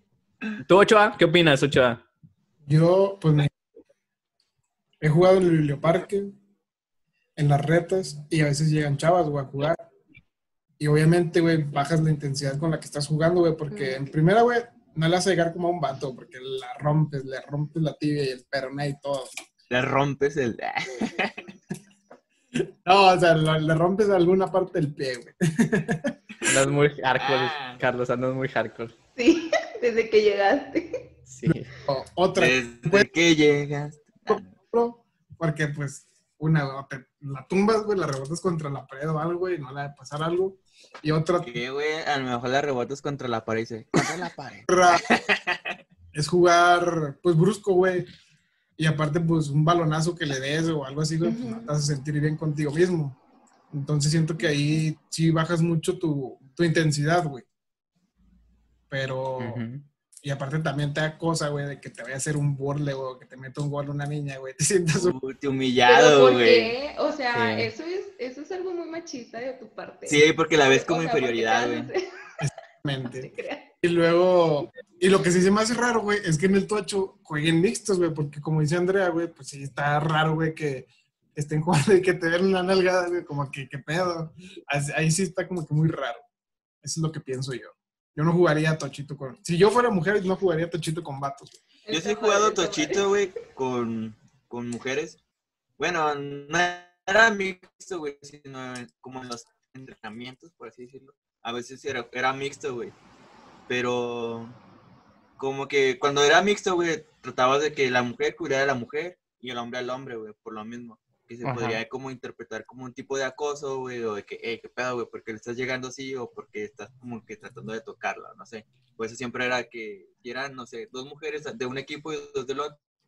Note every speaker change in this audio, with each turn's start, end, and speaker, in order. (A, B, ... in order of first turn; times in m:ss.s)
0:00.6-0:02.0 A
0:02.7-0:03.5 B
0:05.0-0:06.3 B
0:07.4-0:09.8 B
0:10.8-0:19.4 B
0:13.7-0:14.0 C
0:19.7-0:21.5 D
0:22.8-0:26.1 B
0:26.4-0:28.9 A
0:26.5-0:27.8 D
0:29.2-0:31.2 C
0:31.3-0:31.7 A
0:31.8-0:33.1 B
0:32.3-0:34.5 D
0:34.3-0:41.5 B
0:41.4-0:45.8 D
0:44.7-0:45.0 B
0:46.1-0:48.1 B
0:48.8-0:53.2 B
0:51.2-0:51.7 C
0:53.7-0:57.4 B
0:58.9-0:59.6 B
0:59.4-0:59.8 A
1:00.2-1:05.2 B
1:05.0-1:06.7 D
1:05.8-1:12.1 C
1:07.3-1:07.7 A
1:10.1-1:11.9 D
1:12.4-1:13.3 B
1:13.1-1:13.7 C
1:13.8-1:26.2 B
1:26.8-1:31.5 B
1:31.8-1:33.0 C
1:31.9-1:35.2 D
1:35.8-1:42.9 D
1:43.7-1:44.6 D
1:45.4-2:02.8 D
1:51.4-1:51.8 A